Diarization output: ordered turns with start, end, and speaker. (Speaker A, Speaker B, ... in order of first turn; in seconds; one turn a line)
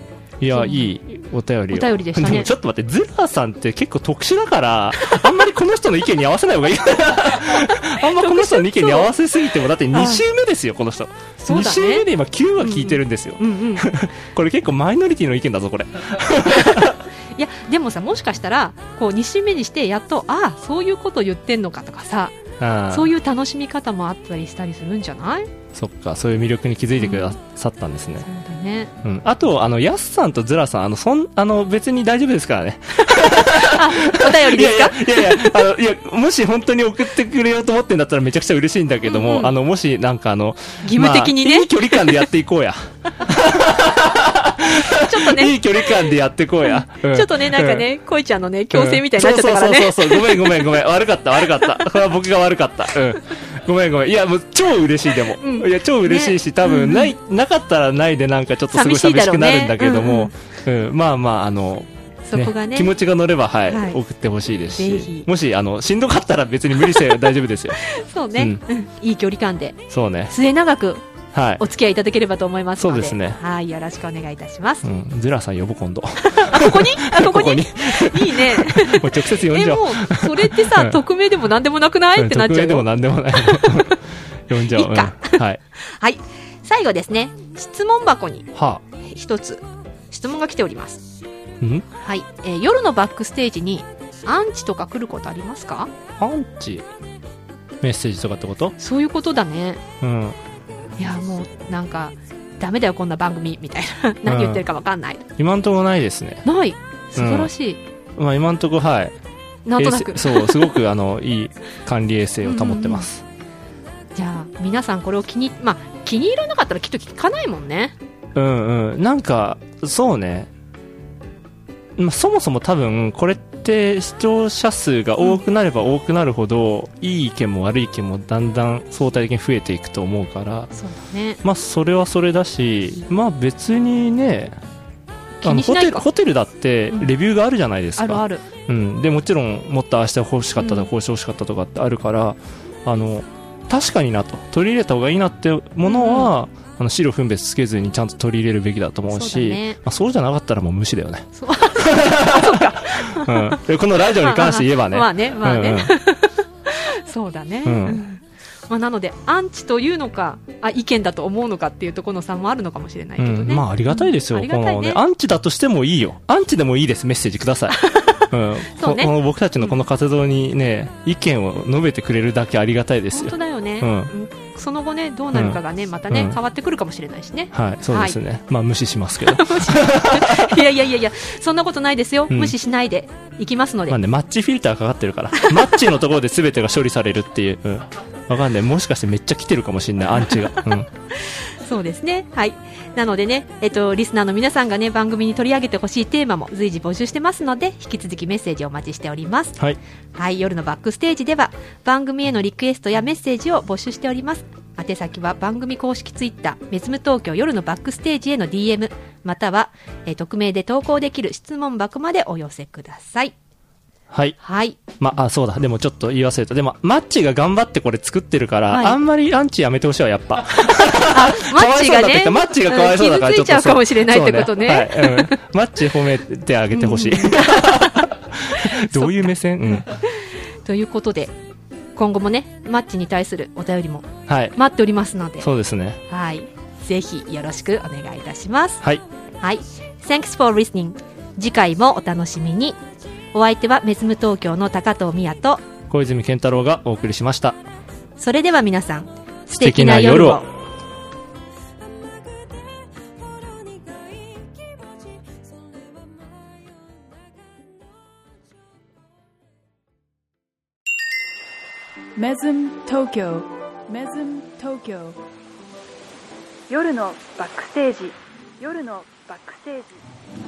Speaker A: 0.4-17.0
Speaker B: 0.5-0.9
Speaker B: 1.7-2.5
Speaker B: 5.0-5.3
Speaker B: 7.4-9.1
Speaker B: 9.9-10.2
Speaker B: 11.4-12.1
Speaker B: 12.6-13.9
Speaker B: 16.7-25.5
Speaker A: 22.6-23.1
Speaker A: 25.7-28.2
Speaker B: 27.0-27.4
Speaker B: 28.2-28.9
Speaker A: 29.0-47.9
Speaker B: 33.1-35.7
Speaker B: 39.0-39.6
Speaker B: 40.8-42.3
Speaker B: 44.7-46.1
Speaker B: 46.6-50.7
Speaker A: 48.7-67.8
Speaker B: 51.4-51.9
Speaker B: 55.4-57.1
Speaker B: 58.7-60.3
Speaker B: 62.2-62.9
Speaker B: 63.7-64.0
Speaker B: 64.8-65.3
Speaker B: 66.8-67.2
Speaker B: 67.8-71.1
Speaker A: 68.4-68.6
Speaker A: 69.9-70.3
Speaker A: 71.3-71.6
Speaker B: 71.6-74.9
Speaker A: 72.8-73.4
Speaker A: 74.8-81.0
Speaker B: 76.2-84.0
Speaker A: 82.2-85.6
Speaker B: 84.7-91.0
Speaker A: 88.5-88.8
Speaker A: 91.6-91.9
Speaker B: 92.0-95.9
Speaker A: 96.2-96.9
Speaker A: 97.8-98.8
Speaker B: 98.8-99.8
Speaker A: 100.0-100.4
Speaker B: 101.0-105.3
Speaker A: 104.2-104.6
Speaker A: 105.4-106.5
Speaker B: 106.5-107.8
Speaker A: 107.2-107.5
Speaker A: 108.2-109.2
Speaker B: 109.7-110.7
Speaker A: 109.8-113.2
Speaker B: 112.4-113.1
Speaker B: 114.2-118.0
Speaker A: 118.3-120.5
Speaker A: 122.0-130.7
Speaker B: 130.7-131.4
Speaker A: 131.4-134.6
Speaker B: 135.4-136.1
Speaker A: 135.4-155.9
Speaker B: 138.0-138.4
Speaker B: 140.6-140.9
Speaker B: 145.8-146.3
Speaker B: 149.1-149.8
Speaker B: 151.3-165.0
Speaker A: 157.7-158.1
Speaker A: 163.2-174.1
Speaker B: 167.7-169.7
Speaker B: 173.1-178.2
Speaker A: 175.3-176.4
Speaker A: 177.5-180.6
Speaker B: 179.2-184.0
Speaker A: 182.3-182.6
Speaker A: 183.9-190.9
Speaker B: 190.2-190.6
Speaker B: 191.2-199.6
Speaker B: 200.2-213.3
Speaker A: 214.1-214.4
Speaker B: 214.4-214.8
Speaker A: 215.0-229.9
Speaker B: 218.7-219.0
Speaker B: 221.1-225.4
Speaker B: 226.7-231.3
Speaker B: 231.9-235.5
Speaker A: 234.3-234.6
Speaker A: 235.4-236.0
Speaker B: 236.1-238.8
Speaker B: 239.4-242.8
Speaker B: 243.3-245.6
Speaker A: 245.9-247.6
Speaker B: 248.2-250.5
Speaker A: 249.5-250.5
Speaker C: 251.9-256.5
Speaker D: 262.1-265.2
Speaker D: 266.7-270.0